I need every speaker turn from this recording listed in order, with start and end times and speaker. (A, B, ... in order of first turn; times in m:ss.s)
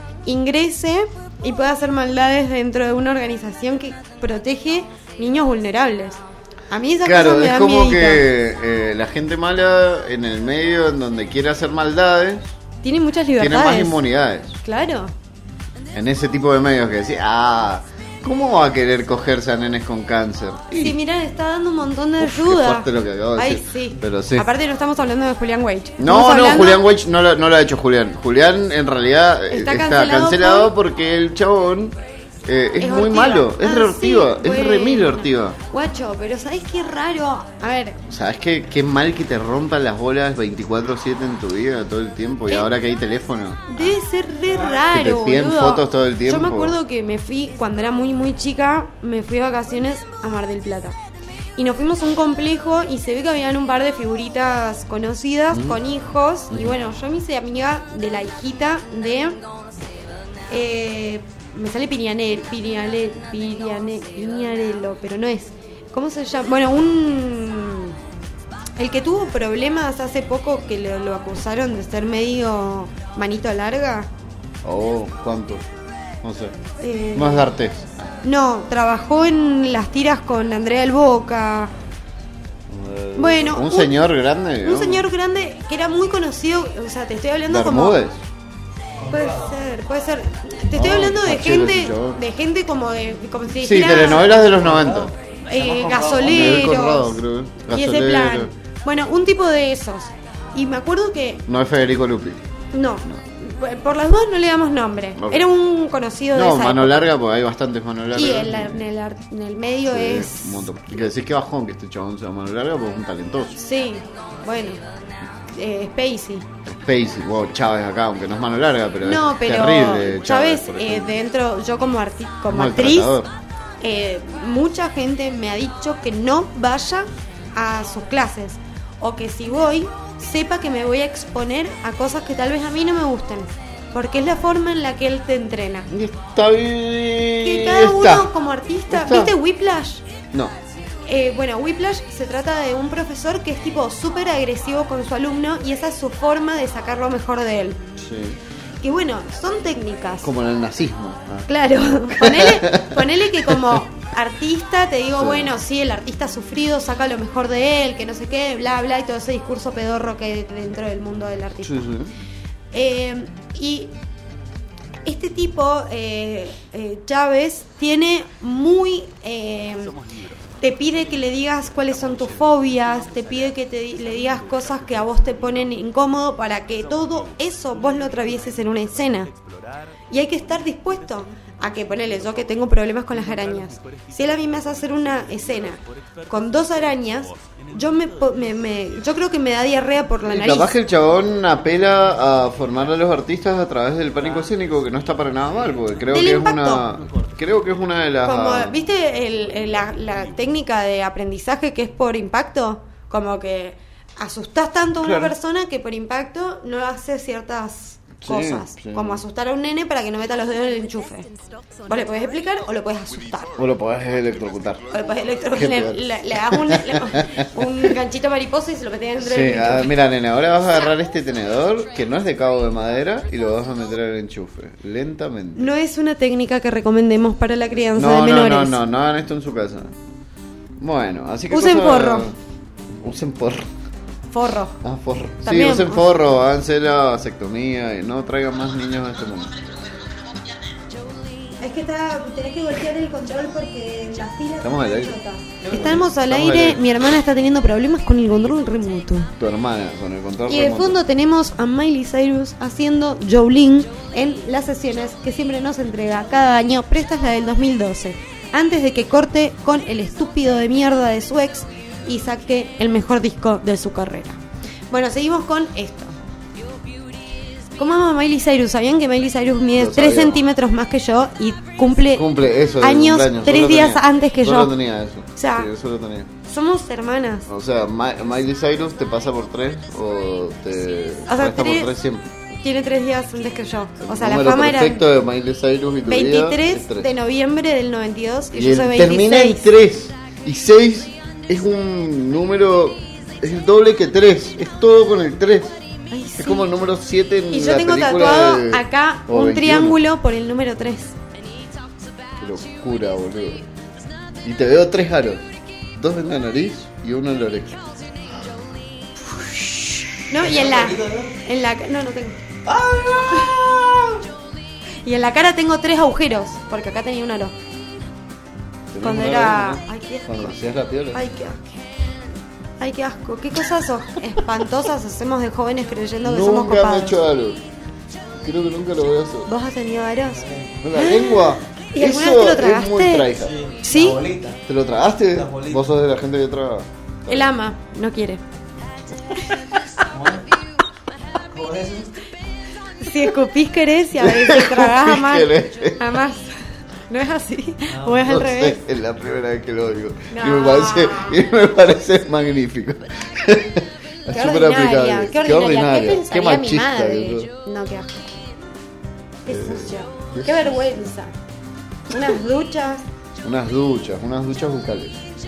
0:00.2-0:08.2 A
0:07.0-0:12.5 B
0:12.8-0:14.0 A
0:13.4-0:14.6 B
0:14.6-0:15.1 A
0:15.9-0:21.0 B
0:20.8-0:26.8 A
0:22.2-0:24.5 B
0:26.0-0:35.6 B
0:29.5-0:30.7 A
0:32.8-0:38.0 A
0:38.1-0:44.0 B
0:43.7-0:51.0 A
0:44.8-0:46.8 B
0:51.6-0:59.4 A
0:55.5-0:55.8 B
1:00.5-1:08.0 A
1:08.8-1:14.1 A
1:14.6-1:15.6 B
1:16.2-1:16.5 B
1:16.8-1:17.5 A
1:17.2-1:17.9 B
1:18.2-1:21.7 A
1:22.7-1:25.1 B
1:23.2-1:24.0 A
1:24.6-1:28.0 A
1:27.5-1:28.2 B
1:29.0-1:29.5 C
1:29.1-1:34.6 A
1:30.7-1:32.2 B
1:33.6-1:35.1 B
1:34.5-1:36.4 C
1:35.4-1:41.5 A
1:36.2-1:38.5 B
1:41.5-1:42.4 B
1:42.7-1:47.1 A
1:45.2-1:45.4 B
1:46.3-1:48.8 B
1:48.1-1:50.5 A
1:49.9-1:53.6 B
1:53.6-1:54.8 A
1:55.5-1:56.5 A
1:56.7-2:01.2 B
1:59.0-2:03.1 A
2:02.5-2:03.3 B
2:03.8-2:15.9 A
2:15.9-2:18.3 B
2:17.4-2:20.0 A
2:18.9-2:19.3 B
2:21.1-2:27.8 A
2:28.0-2:28.4 B
2:28.8-2:30.3 A
2:30.2-2:33.8 B
2:31.5-2:41.9 A
2:35.1-2:35.5 B
2:41.6-2:42.1 B
2:42.7-2:43.9 A
2:45.0-2:50.0 A
2:50.6-2:59.3 A
3:00.1-3:10.7 A
3:10.2-3:18.8 B
3:16.1-3:16.8 A
3:18.2-3:31.3 A
3:25.0-3:25.4 B
3:28.2-3:29.2 B
3:31.9-3:33.6 A
3:33.6-3:34.9 B
3:34.9-3:39.9 A
3:35.5-3:37.5 B
3:39.2-3:45.7 B
3:45.6-3:48.8 A
3:48.0-3:49.9 B
3:50.8-3:52.4 B
3:51.5-3:52.3 A
3:52.9-3:53.7 B
3:54.3-3:54.8 A
3:54.8-3:59.8 B
3:55.4-3:56.0 A
4:01.6-4:09.3 A
4:04.6-4:06.8 B
4:09.4-4:11.0 B
4:10.5-4:24.4 A
4:24.9-4:26.1 A
4:27.8-4:32.3 A
4:29.8-4:30.4 B
4:32.1-4:36.3 B
4:32.8-4:34.8 A
4:35.4-4:35.7 A
4:36.4-4:37.5 A
4:37.5-4:42.3 B
4:41.3-4:41.9 A
4:42.6-4:45.0 A
4:44.0-4:47.1 B
4:46.1-4:49.6 A
4:48.5-4:55.7 B
4:56.1-4:56.7 A
4:56.4-5:00.0 B
4:57.5-5:01.2 A
5:02.4-5:03.6 B
5:04.4-5:05.4 B
5:06.0-5:08.0 B
5:09.2-5:10.2 B
5:10.3-5:12.4 A
5:10.4-5:11.4 C
5:12.7-5:13.9 C
5:13.6-5:14.1 B
5:15.0-5:17.5 A
5:18.9-5:21.2 B
5:19.0-5:20.5 A
5:21.1-5:21.6 A
5:22.8-5:27.2 A
5:26.2-5:27.6 B
5:28.4-5:29.5 B
5:29.5-5:33.3 A
5:30.4-5:30.8 C
5:30.8-5:33.6 B
5:33.4-5:34.6 C
5:33.8-5:34.2 A
5:34.7-5:37.5 B
5:35.4-5:35.8 C
5:37.3-5:38.4 A
5:40.1-5:40.4 C
5:41.5-5:42.2 C
5:43.0-5:48.8 A
5:44.2-5:46.2 B
5:48.2-5:57.5 B
5:50.3-5:51.4 A
5:54.3-5:58.3 A
5:59.5-6:01.3 A
5:59.5-6:00.7 B
6:02.1-6:03.0 A
6:03.4-6:05.2 B